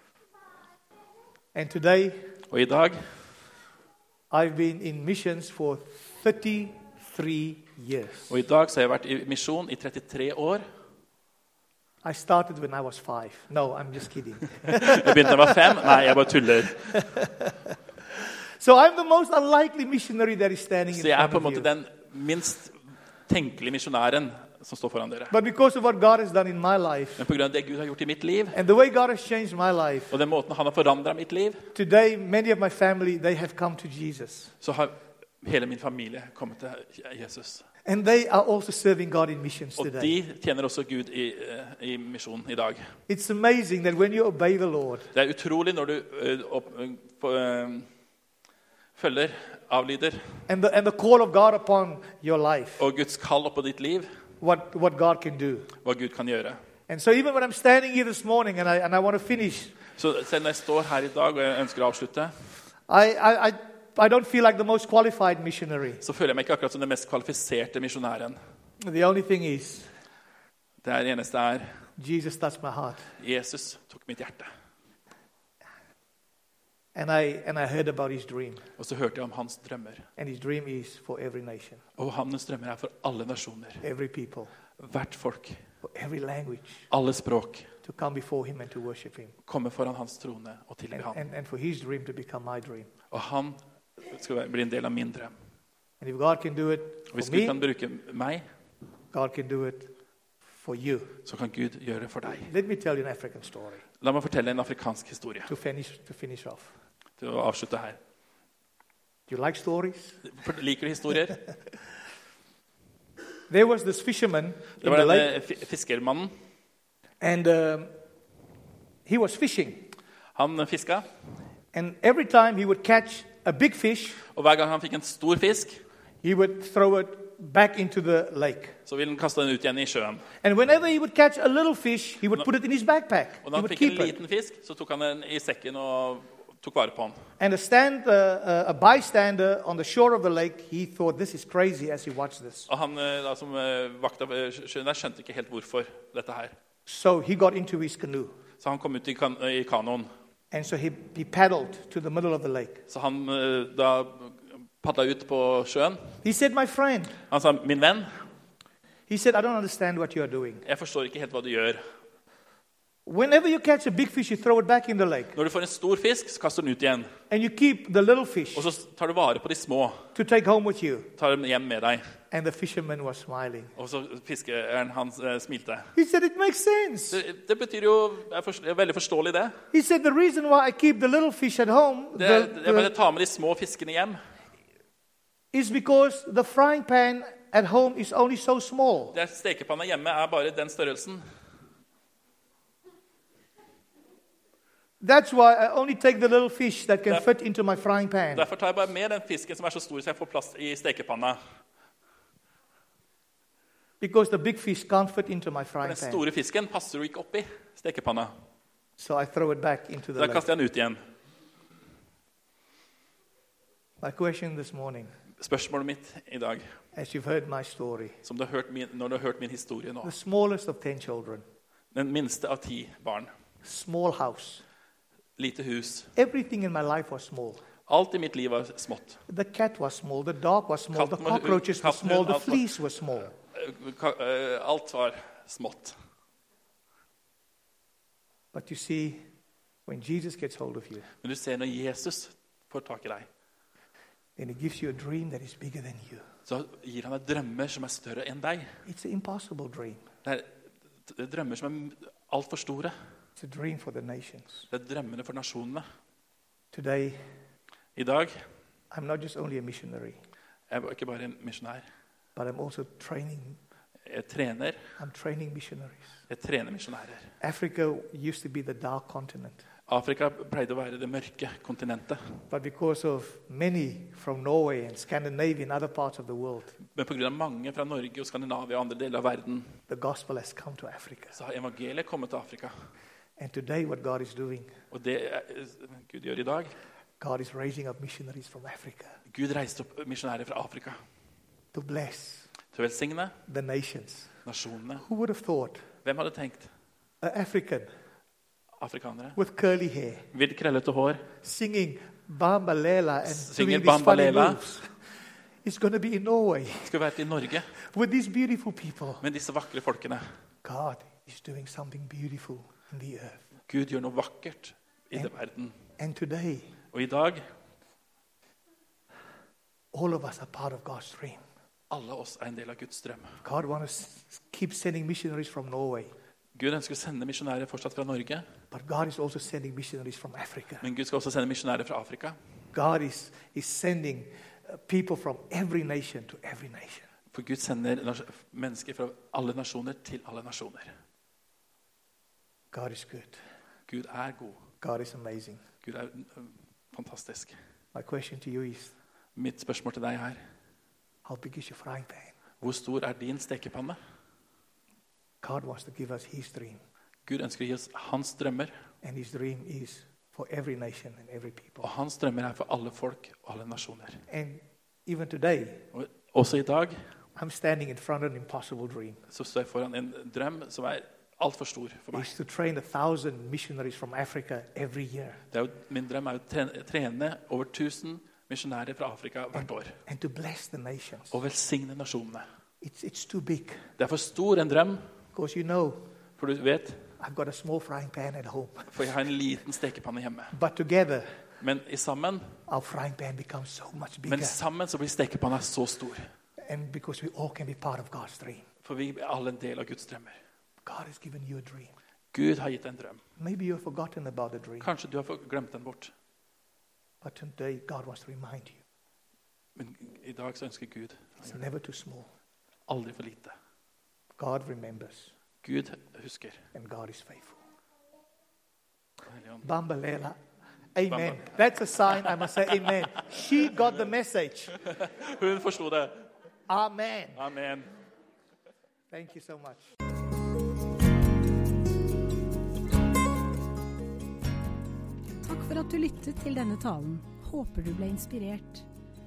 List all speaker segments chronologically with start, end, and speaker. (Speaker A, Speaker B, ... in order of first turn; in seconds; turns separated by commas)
Speaker A: 1.5-2.3, Speaker B: 2.5-3.1, Speaker A: 4.3-8.3, Speaker B: 8.3-10.6, Speaker A: 12.0-16.1, Speaker B: 14.6-17.0, Speaker A: 16.8-17.7, Speaker A: 18.6-21.7, Speaker B: 20.9-25.3, Speaker A: 25.3-27.2, Speaker B: 27.2-28.6, Speaker A: 28.5-30.1, Speaker B: 30.1-31.7, Speaker A: 31.7-34.5, Speaker B: 34.6-37.6, Speaker A: 37.9-40.1, Speaker B: 39.8-42.9, Speaker A: 43.1-45.1, Speaker B: 45.1-47.9, Speaker B: 49.0-50.4, Speaker A: 50.5-52.8, Speaker B: 52.8-54.1, Speaker A: 54.4-55.7, Speaker B: 55.8-56.6, Speaker A: 56.9-59.7, Speaker B: 60.0-62.3, Speaker A: 62.9-66.0, Speaker B: 66.0-68.4, Speaker A: 68.8-69.9, Speaker B: 70.8-71.8, Speaker A: 72.0-73.1, Speaker B: 73.2-74.5, Speaker A: 76.9-78.6, Speaker B: 78.8-80.1, Speaker A: 80.2-81.8, Speaker B: 82.0-83.8, Speaker A: 83.8-84.5, Speaker B: 84.8-85.6, Speaker A: 85.8-86.9, Speaker B: 86.9-87.7, Speaker A: 87.8-89.3, Speaker B: 89.5-91.2, Speaker A: 90.9-92.9, Speaker B: 93.1-95.3, Speaker A: 96.0-97.6, Speaker B: 97.1-98.4, Speaker A: 99.1-99.9, Speaker A: 100.5-101.2, Speaker B: 101.2-102.5, Speaker A: 102.5-103.8, Speaker B: 104.0-105.5, Speaker A: 105.5-106.7, Speaker B: 107.2-108.0, Speaker A: 109.3-110.2, Speaker B: 110.2-111.4, Speaker A: 113.5-115.3, Speaker B: 114.8-116.3, Speaker A: 117.2-117.9, Speaker A: 119.0-119.9, Speaker B: 120.3-121.1, Speaker A: 121.7-124.2, Speaker B: 124.3-125.8, Speaker A: 126.2-128.8, Speaker B: 128.8-130.2, Speaker A: 130.4-134.2, Speaker B: 133.4-137.2, Speaker A: 137.4-142.7, Speaker B: 142.7-146.5, Speaker A: 146.8-148.3, Speaker B: 148.6-150.1, Speaker A: 150.5-152.8, Speaker B: 152.9-156.2, Speaker A: 156.2-157.2, Speaker B: 157.3-158.1, Speaker A: 159.1-160.6, Speaker B: 160.6-161.8, Speaker A: 163.0-165.3, Speaker B: 165.3-167.1, Speaker A: 167.3-168.7, Speaker B: 168.5-170.1, Speaker A: 170.1-171.1, Speaker B: 171.2-172.0, Speaker A: 172.3-173.7, Speaker B: 173.8-175.9, Speaker A: 175.9-177.2, Speaker B: 177.1-179.6, Speaker A: 179.7-182.9, Speaker B: 182.2-184.2, Speaker A: 185.5-189.1, Speaker B: 189.1-191.2, Speaker A: 195.0-198.5, Speaker B: 198.3-201.4, Speaker A: 204.0-206.2, Speaker B: 205.8-208.3, Speaker A: 209.0-210.4, Speaker B: 210.2-211.0, Speaker A: 214.0-215.1, Speaker B: 215.4-216.7, Speaker A: 216.9-218.2, Speaker B: 218.2-220.1, Speaker A: 220.0-221.4, Speaker B: 221.9-223.3, Speaker A: 223.6-224.6, Speaker B: 225.4-226.1, Speaker A: 226.1-227.6, Speaker B: 227.9-229.2, Speaker A: 229.3-233.3, Speaker B: 230.9-232.7, Speaker B: 233.5-235.9, Speaker A: 238.5-239.2, Speaker A: 239.8-241.1, Speaker B: 241.2-243.3, Speaker A: 244.4-246.3, Speaker B: 246.5-248.8, Speaker A: 248.8-250.0, Speaker B: 250.2-252.9, Speaker A: 253.4-254.7, Speaker B: 254.7-255.8, Speaker A: 256.7-257.2, Speaker B: 257.9-258.4, Speaker A: 258.9-260.2, Speaker B: 260.7-261.8, Speaker A: 262.4-263.6, Speaker B: 264.0-264.8, Speaker A: 265.0-266.2, Speaker B: 266.3-267.3, Speaker A: 267.4-269.6, Speaker B: 269.9-272.4, Speaker A: 272.5-276.8, Speaker B: 276.9-279.7, Speaker A: 279.9-281.4, Speaker B: 281.3-282.7, Speaker A: 283.4-284.7, Speaker B: 284.9-286.7, Speaker A: 287.2-289.1, Speaker B: 289.3-291.0, Speaker A: 291.7-292.5, Speaker B: 292.7-293.4, Speaker A: 293.5-294.3, Speaker B: 294.4-295.0, Speaker A: 295.0-295.8, Speaker B: 296.0-296.7, Speaker A: 297.2-297.9, Speaker B: 298.8-299.4, Speaker A: 299.4-300.2, Speaker B: 300.3-301.3, Speaker A: 301.4-304.9, Speaker B: 303.2-304.6, Speaker A: 305.6-306.9, Speaker B: 306.8-307.7, Speaker A: 307.8-309.2, Speaker B: 309.2-310.2, Speaker A: 310.6-313.4, Speaker B: 313.7-315.7, Speaker A: 316.0-316.7, Speaker B: 316.9-317.4, Speaker A: 319.9-321.4, Speaker B: 321.9-323.4, Speaker A: 323.4-326.1, Speaker B: 326.5-328.4, Speaker A: 328.7-330.8, Speaker B: 330.8-332.4, Speaker A: 332.7-337.1, Speaker B: 337.3-341.0, Speaker A: 342.7-343.4, Speaker B: 343.9-344.6, Speaker A: 344.8-345.6, Speaker B: 345.8-347.6, Speaker A: 347.9-348.9, Speaker B: 349.3-350.4, Speaker A: 351.2-352.4, Speaker B: 352.6-354.0, Speaker A: 355.4-356.8, Speaker B: 357.2-358.7, Speaker A: 359.0-361.9, Speaker B: 361.8-364.2, Speaker A: 364.3-365.8, Speaker B: 365.9-366.9, Speaker A: 367.4-369.2, Speaker B: 369.3-372.4, Speaker A: 372.1-375.4, Speaker B: 375.5-380.0, Speaker A: 379.6-381.4, Speaker B: 381.3-382.4, Speaker A: 382.8-383.9, Speaker B: 384.0-385.0, Speaker A: 385.3-386.1, Speaker B: 386.4-387.0, Speaker A: 387.2-388.9, Speaker B: 388.9-390.5, Speaker A: 390.5-391.2, Speaker B: 391.6-392.5, Speaker A: 392.7-394.6, Speaker B: 394.3-396.3, Speaker A: 396.6-398.6, Speaker B: 398.8-400.4, Speaker A: 400.8-401.9, Speaker B: 402.3-403.2, Speaker A: 403.4-404.9, Speaker B: 404.8-406.1, Speaker A: 407.2-408.8, Speaker B: 409.8-411.6, Speaker A: 411.4-412.3, Speaker B: 412.9-413.6, Speaker A: 414.4-415.3, Speaker B: 415.6-416.6, Speaker A: 416.7-417.6, Speaker B: 419.3-419.6, Speaker A: 419.6-420.4, Speaker A: 420.9-424.8, Speaker B: 421.1-421.5, Speaker B: 422.1-423.0, Speaker B: 424.8-426.3, Speaker A: 426.7-427.4, Speaker B: 427.4-427.9, Speaker A: 429.1-429.8, Speaker C: 435.4-438.8